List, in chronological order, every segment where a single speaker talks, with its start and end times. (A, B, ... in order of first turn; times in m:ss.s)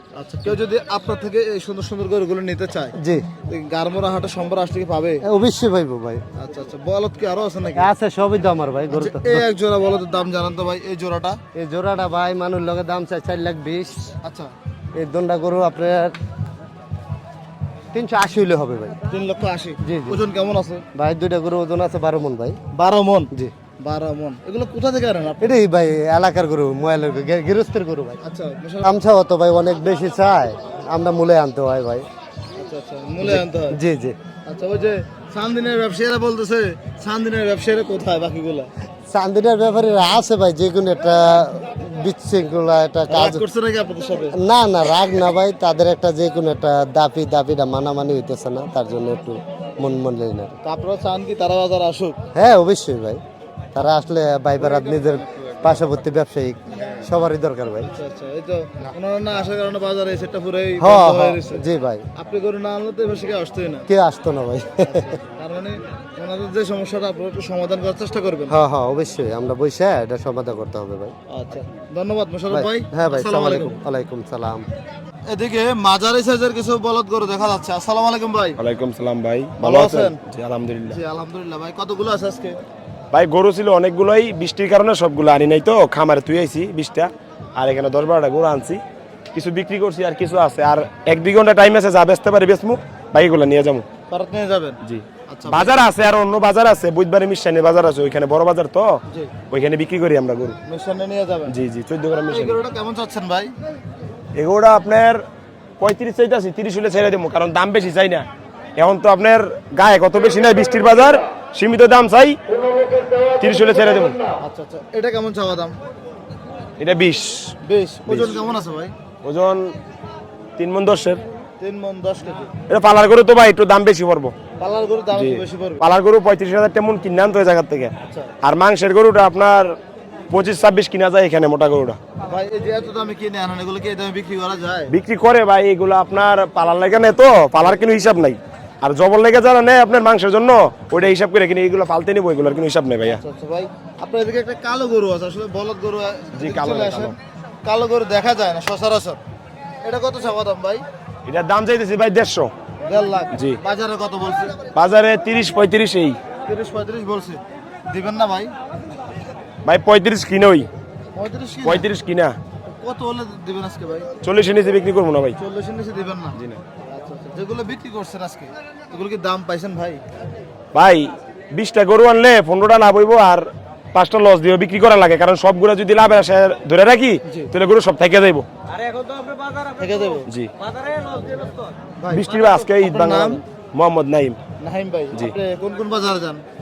0:00.1-0:03.0 A
0:03.0-0:03.3 B
0:03.5-0:05.2 A
0:05.2-0:06.2 B
0:06.4-0:07.9 A
0:07.7-0:09.4 B
0:08.9-0:11.4 A
0:11.5-0:14.0 B
0:14.2-0:14.5 A
0:14.9-0:16.2 B
0:17.9-0:19.0 B
0:19.1-0:20.8 A
0:19.8-0:20.2 B
0:20.9-0:22.6 B
0:22.7-0:25.5 A
0:25.4-0:28.2 B
0:28.2-0:28.9 A
0:28.8-0:32.1 B
0:32.6-0:33.8 A
0:33.2-0:34.2 B
0:34.4-0:38.7 A
0:39.1-0:43.4 B
0:43.1-0:44.4 A
0:44.3-0:50.6 B
0:50.6-0:52.2 A
0:52.3-0:53.2 B
0:53.7-0:57.9 B
0:54.6-0:55.9 A
0:57.9-1:01.6 A
1:00.8-1:02.0 B
1:02.1-1:03.8 A
1:03.9-1:05.1 B
1:04.8-1:08.5 A
1:08.5-1:11.1 B
1:11.3-1:13.8 A
1:12.5-1:14.7 B
1:15.3-1:18.6 A
1:18.6-1:21.0 C
1:19.6-1:20.2 A
1:20.9-1:22.6 A
1:23.1-1:28.8 C
1:29.3-1:33.8 C
1:34.1-1:35.9 A
1:34.8-1:38.9 C
1:39.5-1:40.6 C
1:40.7-1:41.6 A
1:41.5-1:42.6 C
1:42.3-1:43.5 A
1:44.3-1:45.2 C
1:45.8-1:52.4 C
1:53.4-1:54.2 C
1:54.4-1:55.7 A
1:56.8-1:57.5 C
1:57.6-1:58.9 A
1:58.1-1:58.4 C
1:59.2-1:59.7 C
2:00.6-2:01.2 C
2:01.6-2:02.5 A
2:02.7-2:04.3 C
2:04.6-2:05.8 A
2:05.1-2:09.8 C
2:10.3-2:12.0 C
2:12.3-2:14.9 A
2:14.9-2:23.2 C
2:23.0-2:29.2 A
2:26.4-2:27.2 C
2:29.8-2:30.8 A
2:31.2-2:32.5 C
2:32.8-2:34.6 A
2:33.3-2:33.6 C
2:34.7-2:36.2 C
2:36.5-2:38.5 A
2:39.6-2:40.7 C
2:41.1-2:41.9 A
2:41.6-2:42.4 C
2:42.8-2:44.1 A
2:44.2-2:45.4 C
2:45.4-2:50.0 A
2:46.4-2:46.6 C
2:50.7-2:58.5 C
2:59.7-3:00.2 A
3:02.0-3:03.4 A
3:02.1-3:04.4 C
3:04.6-3:06.4 A